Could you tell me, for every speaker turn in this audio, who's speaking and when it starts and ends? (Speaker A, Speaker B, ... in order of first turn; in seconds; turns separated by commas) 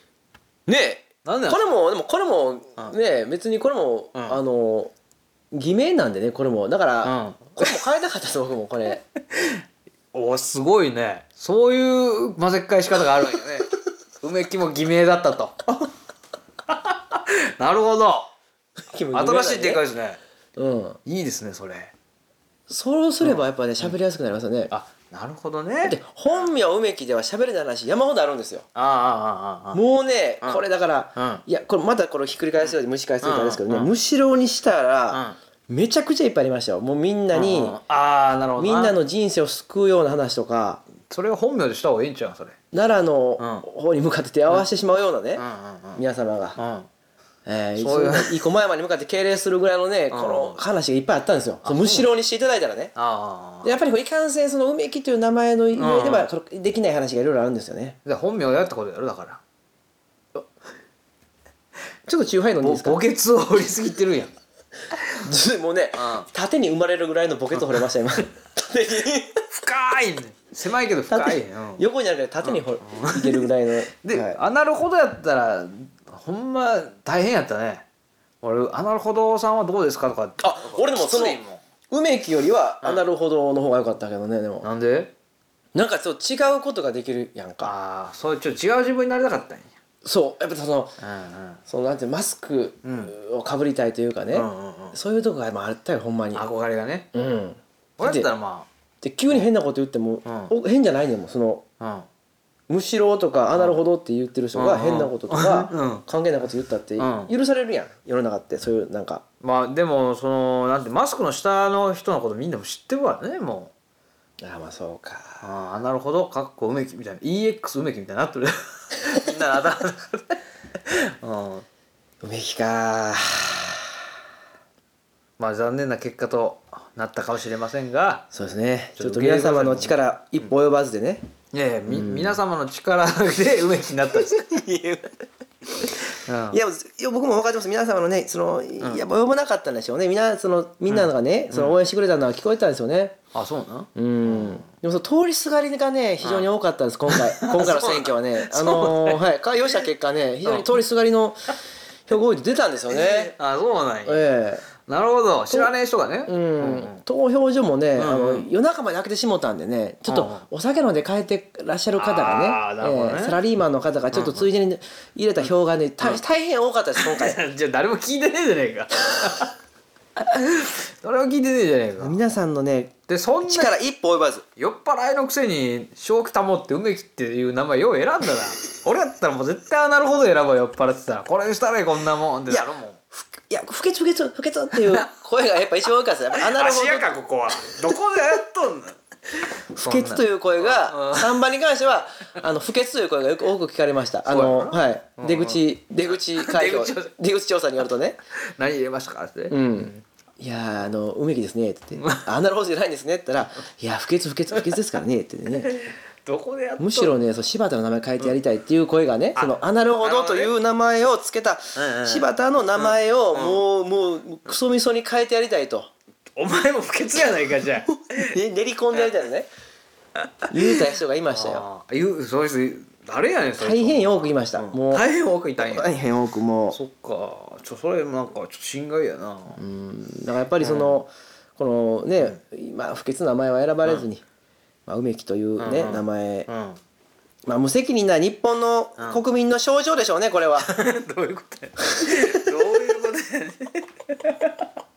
Speaker A: 0.7-4.9, Speaker B: 1.2-1.6, Speaker A: 5.5-9.0, Speaker B: 7.0-7.7, Speaker B: 9.3-9.6, Speaker B: 10.1-13.7, Speaker B: 14.2-15.7, Speaker B: 16.7-18.3, Speaker A: 18.9-19.8, Speaker B: 19.1-20.2, Speaker A: 20.6-21.0, Speaker B: 21.1-21.9, Speaker A: 22.7-24.7, Speaker B: 23.2-23.9, Speaker B: 24.7-26.5, Speaker A: 25.8-28.7, Speaker B: 28.8-29.8, Speaker A: 29.7-37.8, Speaker B: 31.2-31.4, Speaker B: 33.2-33.9, Speaker B: 35.1-35.4, Speaker B: 37.3-39.0, Speaker A: 38.6-40.8, Speaker B: 41.1-42.6, Speaker A: 42.7-45.4, Speaker B: 43.4-43.6, Speaker B: 45.4-46.0, Speaker A: 46.0-46.6, Speaker B: 46.6-46.9, Speaker A: 47.5-52.9, Speaker B: 47.8-48.4, Speaker B: 50.1-50.6, Speaker B: 51.6-52.1, Speaker B: 53.0-53.7, Speaker A: 53.6-58.0, Speaker B: 55.8-56.3, Speaker B: 58.0-59.4, Speaker A: 62.1-63.0, Speaker B: 62.6-64.3, Speaker A: 65.1-69.4, Speaker B: 66.0-66.3, Speaker B: 67.6-67.8, Speaker B: 69.5-71.8, Speaker A: 71.1-74.4, Speaker B: 72.4-73.5, Speaker B: 74.0-77.8, Speaker B: 78.4-81.6, Speaker A: 80.4-84.7, Speaker B: 84.6-85.1, Speaker A: 85.8-87.7, Speaker B: 87.6-89.7, Speaker A: 90.0-91.0, Speaker B: 91.0-91.6, Speaker A: 91.7-96.5, Speaker B: 92.8-93.1, Speaker B: 94.3-95.0, Speaker B: 96.3-97.1, Speaker A: 97.1-98.3, Speaker B: 98.0-98.7, Speaker A: 99.0-101.6, Speaker B: 100.2-100.5, Speaker B: 101.8-102.1, Speaker A: 102.7-109.2, Speaker B: 104.5-106.0, Speaker B: 107.0-107.3, Speaker B: 109.4-113.7, Speaker A: 114.4-115.4, Speaker B: 115.4-121.7, Speaker A: 122.2-123.9, Speaker B: 125.4-128.3, Speaker A: 128.3-131.3, Speaker B: 129.0-129.9, Speaker B: 131.5-134.4, Speaker A: 131.9-132.4, Speaker A: 134.3-136.0, Speaker B: 136.2-136.6, Speaker A: 136.5-143.2, Speaker B: 140.9-141.8, Speaker B: 143.3-144.6, Speaker A: 143.9-151.6, Speaker B: 146.2-146.5, Speaker B: 147.1-149.2, Speaker B: 150.4-150.7, Speaker A: 152.1-153.3, Speaker B: 152.9-154.3, Speaker A: 154.1-154.7, Speaker B: 154.8-157.0, Speaker A: 156.3-167.4, Speaker B: 158.0-158.5, Speaker B: 160.1-160.4, Speaker B: 162.0-163.4, Speaker B: 164.1-164.5, Speaker B: 167.0-169.5, Speaker B: 170.2-172.2, Speaker A: 172.0-172.9, Speaker B: 173.1-173.7, Speaker A: 173.4-174.4, Speaker B: 174.6-183.0, Speaker A: 182.5-187.2, Speaker B: 184.8-185.1, Speaker B: 186.4-189.0, Speaker A: 189.7-198.2, Speaker B: 189.8-191.4, Speaker B: 194.3-195.6, Speaker B: 196.2-197.1, Speaker B: 198.6-200.0, Speaker A: 199.5-205.7, Speaker B: 202.0-202.3, Speaker B: 205.7-207.2, Speaker A: 206.8-215.9, Speaker B: 209.4-210.5, Speaker B: 211.8-213.6, Speaker B: 216.4-218.3, Speaker A: 217.9-219.5, Speaker A: 220.5-221.7, Speaker B: 221.3-225.9, Speaker A: 223.6-226.8, Speaker B: 226.7-229.6, Speaker A: 229.6-234.2, Speaker B: 230.6-231.0, Speaker A: 234.9-236.5, Speaker B: 235.6-236.8, Speaker A: 237.5-240.7, Speaker B: 240.6-244.7